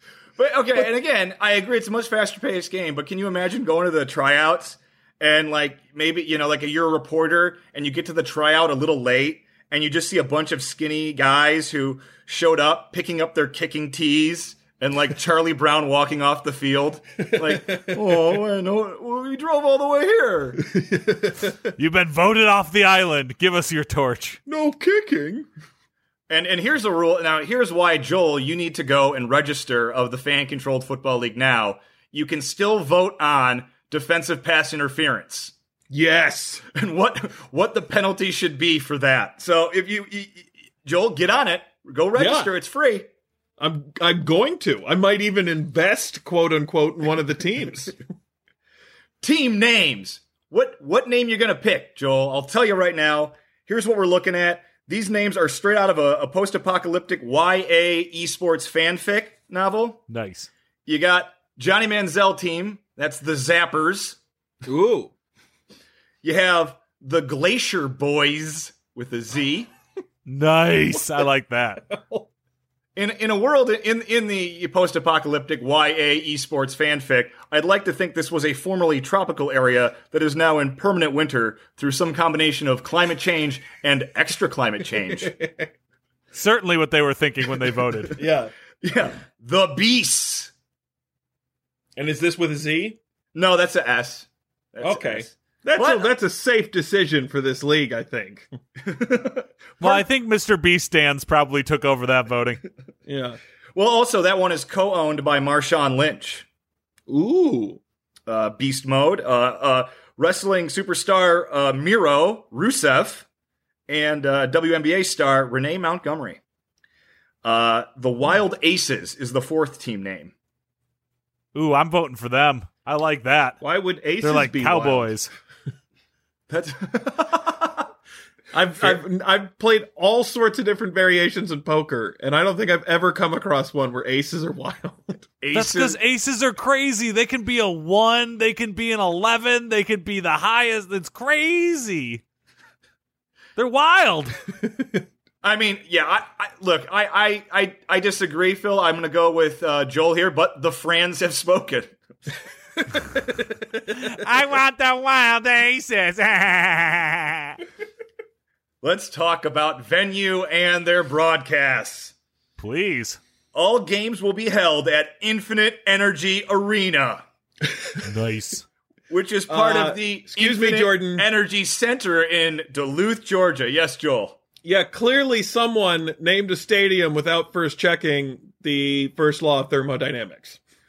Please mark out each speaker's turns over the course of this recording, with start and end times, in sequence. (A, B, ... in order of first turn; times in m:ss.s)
0:00.4-0:20.6 A
0:17.4-0:18.0 B
0:20.7-0:21.5 B
0:21.8-0:24.4 C
0:24.5-0:25.5 B
0:26.3-0:35.5 A
0:35.9-0:36.6 B
0:36.7-0:43.1 A
0:42.2-0:42.5 B
0:43.6-0:48.0 B
0:49.2-1:00.0 A
1:00.1-1:00.5 C
1:00.9-1:04.2 A
1:04.7-1:05.1 B
1:06.2-1:09.7 A
1:10.3-1:11.8 C
1:11.9-1:12.3 B
1:13.0-1:25.4 A
1:25.2-1:25.7 B
1:26.3-1:28.2 C
1:28.2-1:28.5 B
1:28.8-1:30.5 A
1:32.0-1:33.0 B
1:33.3-1:36.1 A
1:34.8-1:38.5 B
1:38.8-1:40.0 A
1:39.8-1:42.6 C
1:43.1-1:43.4 B
1:43.8-1:46.5 A
1:47.1-1:47.8 B
1:48.3-1:53.3 A
1:53.9-1:56.4 A
1:57.4-2:00.3 A
2:01.5-2:03.6 C
2:03.6-2:05.2 B
2:04.2-2:05.3 C
2:06.5-2:07.9 A
2:08.5-2:15.3 B
2:15.4-2:16.0 A
2:15.5-2:22.2 C
2:23.6-2:24.4 C
2:24.6-2:25.0 B
2:25.4-2:32.0 A
2:33.0-2:37.6 C
2:38.8-2:42.2 A
2:42.6-2:43.2 C
2:43.5-2:47.2 A
2:48.0-2:48.7 C
2:49.1-2:54.4 A
2:49.5-2:51.3 B
2:54.6-3:00.6 B